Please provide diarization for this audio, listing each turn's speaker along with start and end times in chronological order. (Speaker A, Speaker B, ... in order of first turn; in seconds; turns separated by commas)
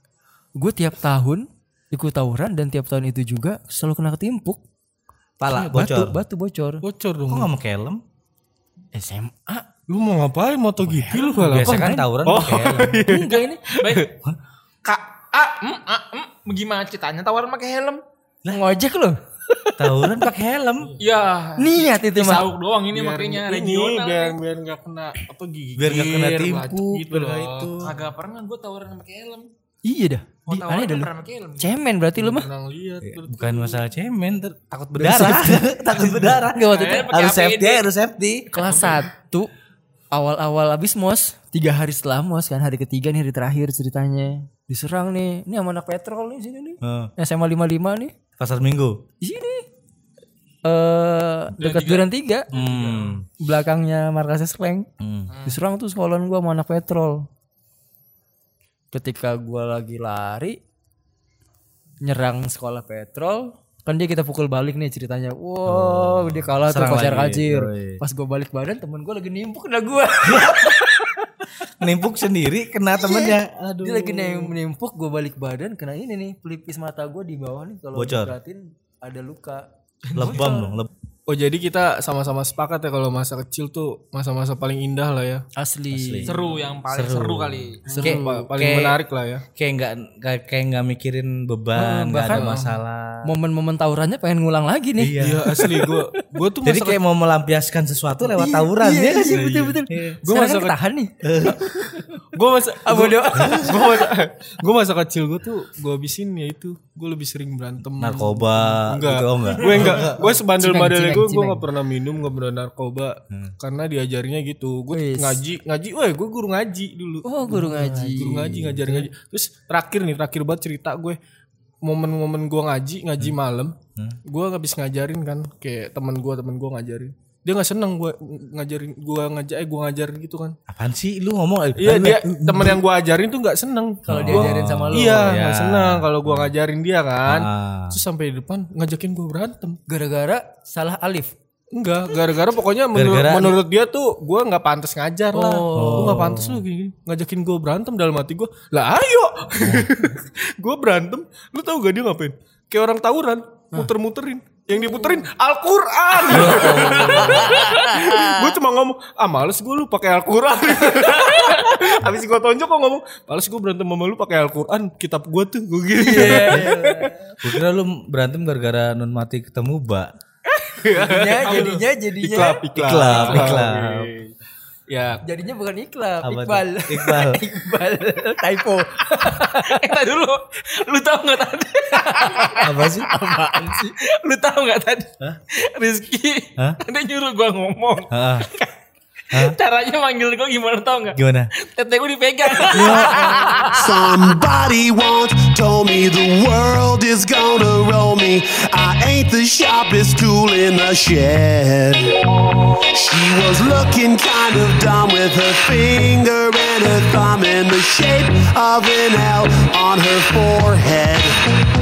Speaker A: 0.6-4.6, Speaker B: 5.4-6.2, Speaker A: 5.5-6.8, Speaker C: 6.8-7.5, Speaker B: 7.3-8.0, Speaker A: 8.9-9.7, Speaker C: 9.9-14.1, Speaker A: 10.8-13.6, Speaker B: 11.5-13.0, Speaker D: 13.8-14.1, Speaker D: 14.8-18.0, Speaker A: 18.5-20.2, Speaker B: 19.8-20.9, Speaker C: 20.8-21.1, Speaker D: 21.0-24.4, Speaker A: 21.6-22.5, Speaker C: 22.9-27.7, Speaker B: 25.8-27.9, Speaker D: 27.8-29.5, Speaker A: 29.8-32.5, Speaker D: 30.4-31.7, Speaker C: 32.2-33.8, Speaker B: 33.0-38.5, Speaker A: 35.0-37.1, Speaker D: 36.6-37.8, Speaker A: 38.5-39.5, Speaker C: 38.6-38.9, Speaker A: 40.1-48.1, Speaker B: 46.8-47.1, Speaker B: 48.4-49.0, Speaker A: 49.2-49.6, Speaker A: 50.6-52.5, Speaker D: 51.6-53.2, Speaker B: 52.5-53.2, Speaker A: 53.4-54.9, Speaker B: 55.0-55.3, Speaker D: 55.3-55.6, Speaker A: 55.4-57.3, Speaker A: 58.9-60.6, Speaker A: 62.0-71.1, Speaker B: 65.7-68.0, Speaker B: 70.2-70.7, Speaker B: 71.8-74.5, Speaker A: 73.0-80.7, Speaker B: 77.9-78.3, Speaker B: 80.1-80.9, Speaker C: 81.3-85.4, Speaker A: 85.5-86.4, Speaker B: 85.9-86.3, Speaker D: 86.3-87.9, Speaker B: 86.9-89.0, Speaker A: 87.9-88.5, Speaker C: 87.9-89.4, Speaker B: 89.5-93.3, Speaker A: 91.7-92.6, Speaker C: 92.3-92.8, Speaker A: 93.2-95.9, Speaker B: 95.0-95.9, Speaker C: 95.2-97.0, Speaker B: 96.6-100.2, Speaker A: 98.3-101.9, Speaker C: 99.3-100.8, Speaker B: 101.2-102.0, Speaker C: 102.3-121.2, Speaker A: 102.8-104.1, Speaker B: 103.4-103.7, Speaker B: 108.0-110.4, Speaker D: 109.5-110.1, Speaker A: 110.5-111.6, Speaker A: 114.9-115.4, Speaker A: 117.2-119.1, Speaker B: 118.3-118.7, Speaker C: 121.8-123.7, Speaker C: 124.2-130.6, Speaker B: 130.7-132.8, Speaker C: 131.8-139.8, Speaker B: 134.1-136.5, Speaker A: 134.1-135.4, Speaker B: 137.2-138.0, Speaker A: 139.9-141.3, Speaker C: 141.7-167.1, Speaker B: 142.9-143.6, Speaker A: 145.3-146.6, Speaker B: 145.7-146.5, Speaker B: 149.6-149.9, Speaker A: 154.7-155.2, Speaker B: 156.3-157.6, Speaker A: 156.3-158.3, Speaker A: 166.0-167.3, Speaker B: 166.2-166.7, Speaker B: 167.4-170.1, Speaker C: 170.8-174.3, Speaker A: 170.9-172.6, Speaker D: 171.4-171.8, Speaker B: 172.7-174.1, Speaker C: 174.9-175.2, Speaker A: 175.2-179.8, Speaker B: 176.2-177.4, Speaker D: 179.5-182.8, Speaker A: 181.9-183.9, Speaker B: 182.6-183.1, Speaker D: 183.5-188.7, Speaker B: 188.1-188.5, Speaker D: 189.3-194.2, Speaker B: 189.3-189.6, Speaker B: 191.1-191.5, Speaker B: 192.7-193.6, Speaker E: 193.6-202.2, Speaker E: 202.9-211.3